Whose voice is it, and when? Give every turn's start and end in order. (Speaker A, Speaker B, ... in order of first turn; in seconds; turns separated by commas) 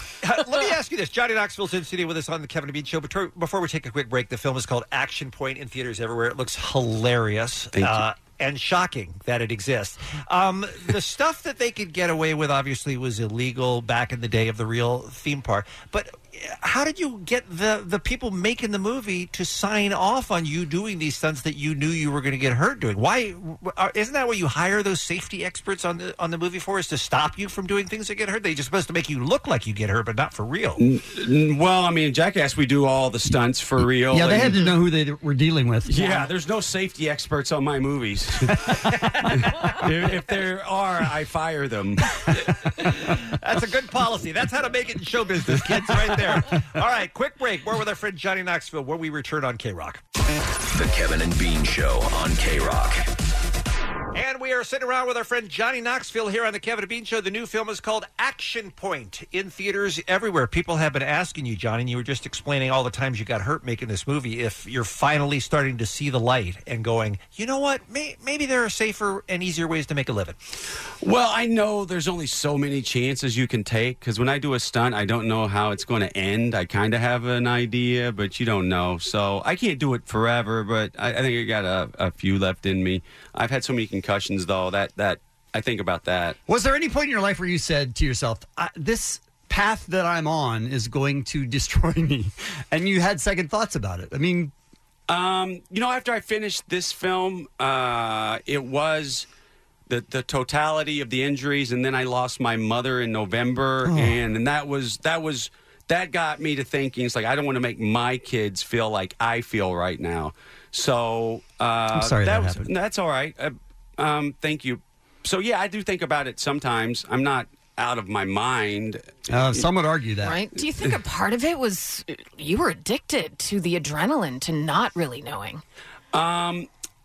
Speaker A: 0.2-30.8, Speaker B: 7.8-8.1, Speaker B: 30.8-34.7, Speaker C: 34.1-36.2, Speaker B: 35.9-38.8, Speaker B: 39.3-42.2, Speaker A: 43.1-50.0, Speaker C: 45.9-46.2, Speaker D: 50.7-53.1, Speaker A: 54.1-70.4, Speaker B: 71.0-86.4, Speaker C: 86.5-94.5, Speaker B: 95.1-99.3, Speaker B: 99.9-119.6, Speaker C: 103.8-104.2, Speaker C: 111.9-112.7, Speaker C: 119.3-120.4, Speaker E: 120.2-125.6, Speaker B: 126.1-126.7